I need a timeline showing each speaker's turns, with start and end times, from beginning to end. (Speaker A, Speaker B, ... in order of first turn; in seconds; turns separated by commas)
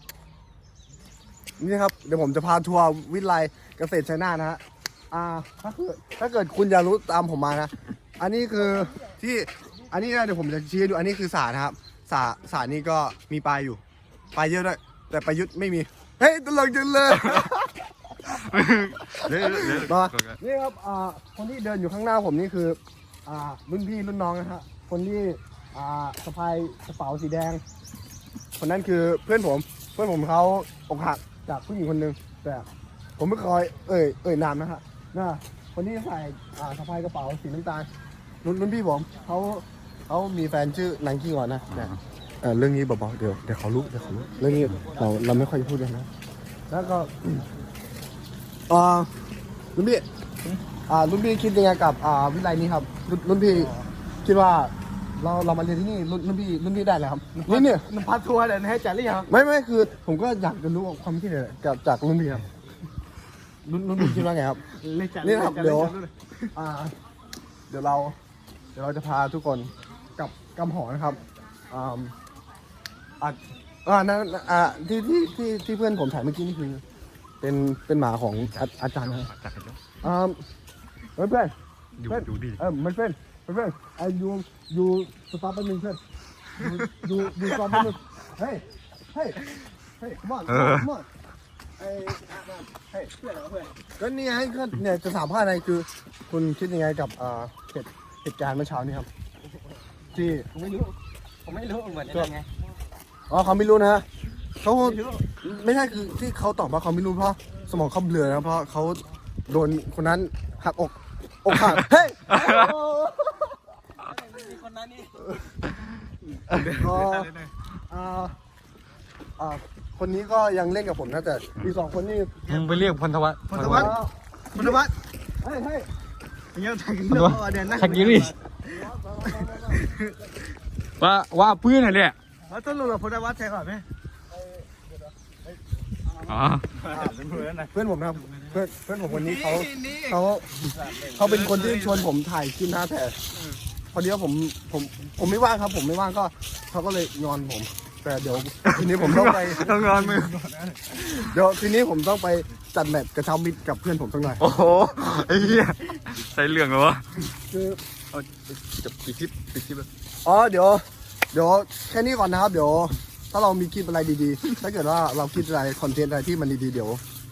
Speaker A: 1.6-4.6, Speaker A: 5.1-13.8, Speaker A: 14.3-17.8, Speaker B: 18.3-20.4, Speaker A: 19.2-27.6, Speaker A: 28.6-37.9, Speaker A: 38.4-46.1, Speaker B: 41.7-42.0, Speaker A: 46.7-47.4, Speaker A: 48.7-49.1, Speaker A: 49.8-50.1, Speaker A: 50.9-53.7, Speaker A: 54.2-57.9, Speaker C: 57.4-59.3, Speaker A: 59.3-62.5, Speaker A: 63.6-64.6, Speaker C: 64.7-66.5, Speaker A: 65.2-66.0, Speaker A: 66.5-66.9, Speaker A: 67.7-68.2, Speaker A: 68.8-71.2, Speaker A: 71.7-72.1, Speaker A: 73.2-76.8, Speaker A: 77.4-79.3, Speaker B: 79.2-79.8, Speaker A: 80.0-80.4, Speaker A: 81.2-81.5, Speaker B: 82.0-82.6, Speaker A: 82.0-86.0, Speaker A: 86.5-91.0, Speaker B: 90.5-90.9, Speaker A: 91.8-92.1, Speaker C: 91.9-93.7, Speaker A: 94.0-99.1, Speaker A: 100.1-100.5, Speaker C: 100.4-100.9, Speaker C: 101.5-102.5, Speaker A: 103.3-104.1, Speaker A: 104.6-112.5, Speaker C: 104.8-105.2, Speaker C: 112.3-113.5, Speaker B: 112.3-112.7, Speaker C: 114.2-115.2, Speaker C: 116.4-117.5, Speaker A: 116.8-117.3, Speaker A: 117.9-118.4, Speaker A: 119.4-122.4, Speaker C: 122.5-122.9, Speaker B: 122.5-123.9, Speaker C: 123.5-124.0, Speaker A: 123.6-124.8, Speaker C: 124.5-124.9, Speaker A: 125.4-125.9, Speaker C: 126.5-130.1, Speaker B: 127.1-128.3, Speaker A: 128.8-129.9, Speaker B: 131.0-132.2, Speaker C: 132.5-133.8, Speaker B: 136.3-136.7, Speaker C: 136.8-137.7, Speaker A: 136.9-143.2, Speaker C: 139.5-140.0, Speaker C: 140.8-142.0, Speaker A: 143.9-149.7, Speaker B: 148.7-150.4, Speaker C: 149.5-150.9, Speaker A: 151.1-154.4, Speaker B: 154.4-157.3, Speaker A: 157.5-157.8, Speaker B: 158.1-159.9, Speaker A: 160.2-167.0